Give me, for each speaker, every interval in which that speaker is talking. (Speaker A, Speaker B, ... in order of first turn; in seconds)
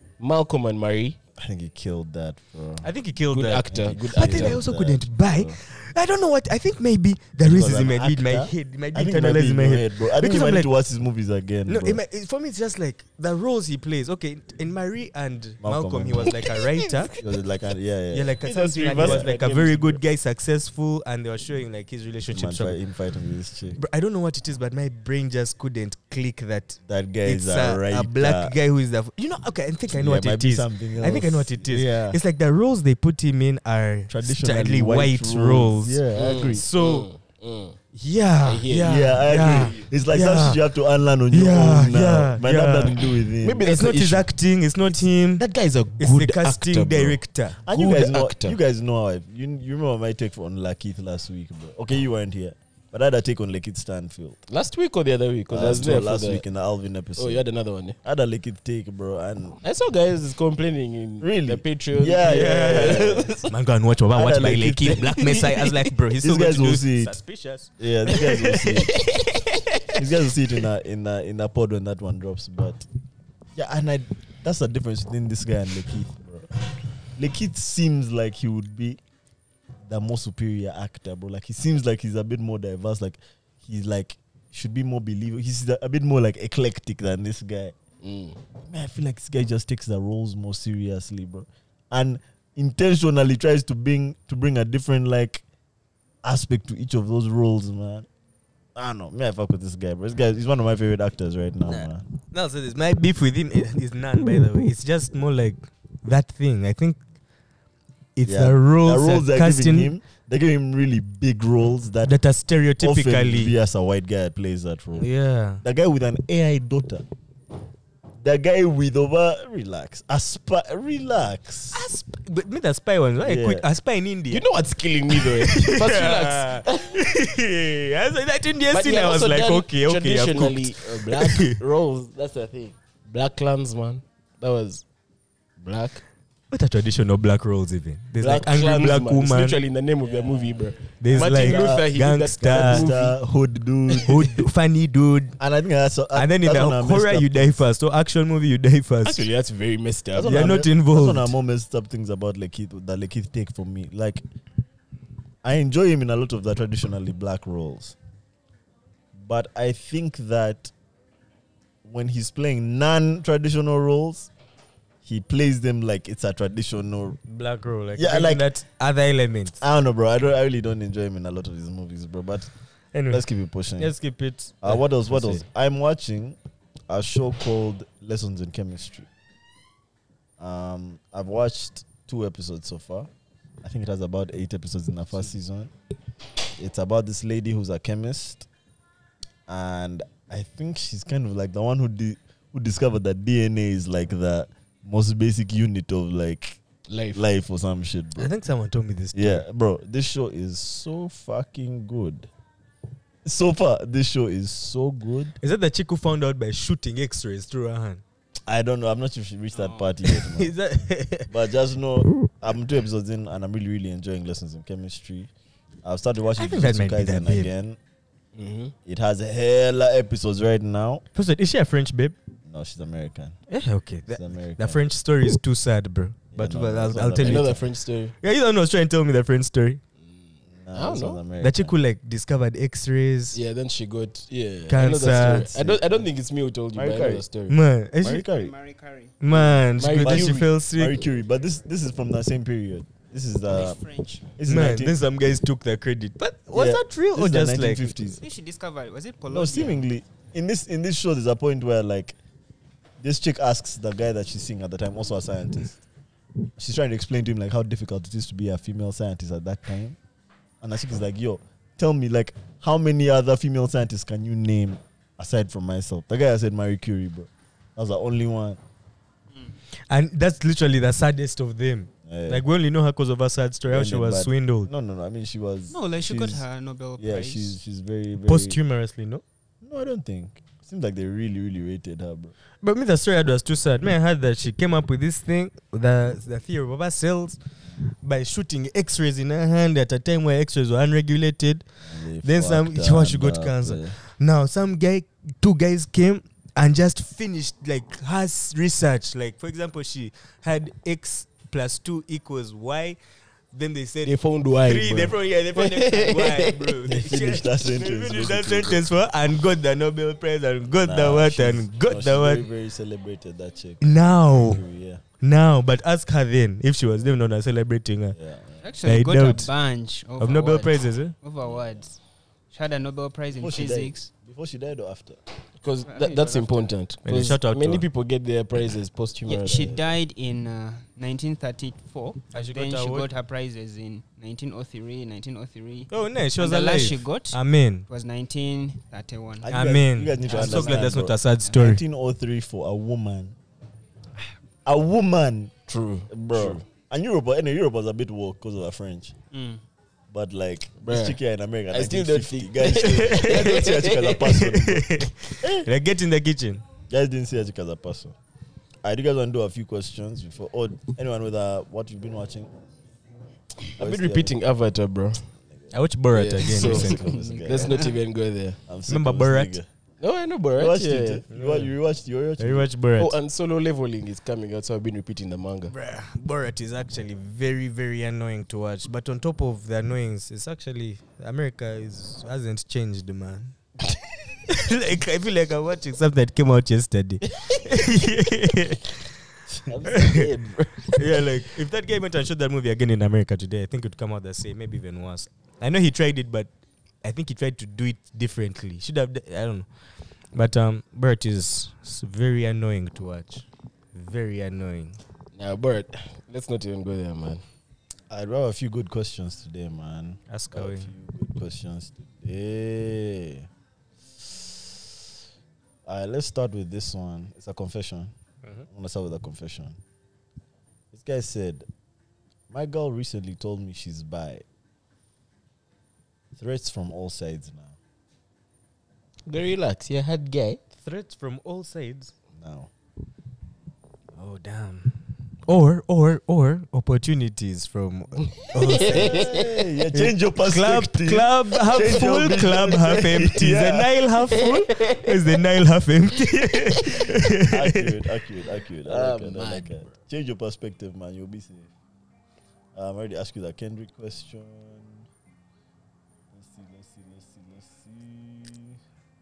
Speaker A: 0.2-1.2, 3.3-4.6, 16.5-17.2, 18.4-20.0, 36.1-37.8, 38.4-39.7, 43.4-44.3, 44.9-48.6, 54.5-56.4, 57.2-58.0, 59.6-63.4, 88.0-88.4, 124.3-127.0, 128.7-134.8, 135.6-136.0, 138.2-143.2, 149.0-150.6, 196.9-197.2, 218.3-218.7, 227.2-228.1, 230.7-231.2, 233.3-237.6, 239.8-240.4, 304.0-306.8, 325.6-329.8, 345.7-346.6, 350.8-351.2, 351.7-354.4, 363.7-365.3, 366.1-368.6, 370.0-371.2, 373.0-375.7, 389.9-390.3, 405.3-407.4, 429.3-430.6, 438.2-439.5, 444.3-445.3, 448.8-449.9
Speaker B: 1.4-2.9, 3.6-5.6, 7.4-12.0, 15.6-16.4, 17.2-18.4, 18.9-19.3, 22.3-23.8, 26.9-28.5, 29.9-32.2, 34.1-36.6, 38.8-43.7, 47.6-54.4, 55.5-57.4, 58.0-59.6, 61.2-63.5, 64.1-65.7, 66.2-67.2, 67.8-68.9, 70.0-72.8, 73.5-76.5, 77.2-79.0, 79.9-87.8, 88.7-95.4, 96.2-98.1, 98.8-102.0, 108.2-112.1, 112.8-115.1, 115.6-117.0, 118.2-121.8, 123.2-123.7, 141.1-141.9, 142.4-144.2, 145.4-147.6, 150.2-154.2, 155.4-157.9, 159.1-160.7, 161.8-164.3, 165.0-167.2, 167.9-168.5, 169.6-172.5, 173.1-173.9, 174.6-176.4, 176.9-179.1, 180.4-183.1, 183.6-185.7, 186.6-188.5, 189.5-196.6, 197.1-198.3, 199.1-202.3, 203.2-205.4, 208.5-210.5, 211.3-215.3, 215.8-217.8, 218.8-221.0, 222.5-223.4, 224.1-224.8, 226.3-227.7, 230.6-231.7, 235.5-236.0, 236.7-237.2, 238.0-238.5, 239.3-243.8, 244.4-245.0, 246.5-248.2, 249.3-252.2, 253.0-255.8, 256.6-260.0, 260.6-268.6, 272.1-272.4, 273.7-276.4, 277.0-278.6, 279.6-282.3, 291.9-294.0, 306.9-308.8, 310.8-315.0, 318.1-318.6, 321.4-321.7, 323.4-325.2, 339.4-343.4, 344.6-345.6, 346.1-349.1, 350.1-354.9, 355.4-355.7, 356.9-358.1, 358.8-362.5, 363.8-364.3, 366.4-367.9, 368.7-369.7, 370.6-372.7, 389.5-390.7, 408.1-413.5, 415.9-418.1, 418.7-419.8, 420.9-421.7, 422.5-424.4, 426.3-427.8, 432.4-432.7, 438.8-443.9, 447.5-451.7, 452.7-455.1, 456.3-458.8
Speaker C: 2.8-10.7, 11.7-17.1, 18.1-22.8, 23.8-37.1, 37.9-40.6, 41.3-45.5, 46.0-47.6, 62.2-69.9, 101.7-107.0, 108.2-109.9, 112.0-113.5, 115.0-115.6, 121.7-124.5, 125.1-131.6, 136.5-139.6, 141.0-142.9, 144.0-145.4, 146.1-149.3, 150.2-151.3, 167.3-169.6, 172.9-173.2, 173.8-175.4, 198.2-199.4, 205.4-208.0, 210.1-211.3, 216.4-217.5, 221.1-222.2, 223.5-227.6, 228.2-229.8, 231.4-233.4, 234.7-235.6, 237.5-238.2, 239.2-241.0, 244.4-248.1, 269.9-274.7, 278.3-279.2, 282.6-287.4, 288.0-291.6, 292.2-303.0, 303.5-312.5, 313.8-314.6, 315.2-318.2, 318.8-319.5, 320.2-321.1, 327.0-327.9, 332.3-333.1, 335.9-337.8, 339.5-341.8, 352.6-353.6, 354.1-356.6, 365.7-367.2, 368.9-369.6, 371.3-371.7, 372.4-373.1, 375.7-383.6, 384.5-388.9, 389.9-390.3, 390.9-396.5, 397.0-399.7, 400.3-405.0, 410.3-410.9, 430.7-432.1, 434.1-439.3, 439.9-447.9
Speaker D: 209.5-209.9, 238.1-239.2, 243.5-244.2, 248.2-249.8, 275.7-277.6, 318.6-322.0, 322.5-324.1, 325.9-326.7, 329.2-339.5, 340.3-340.9, 349.3-349.6, 367.6-367.9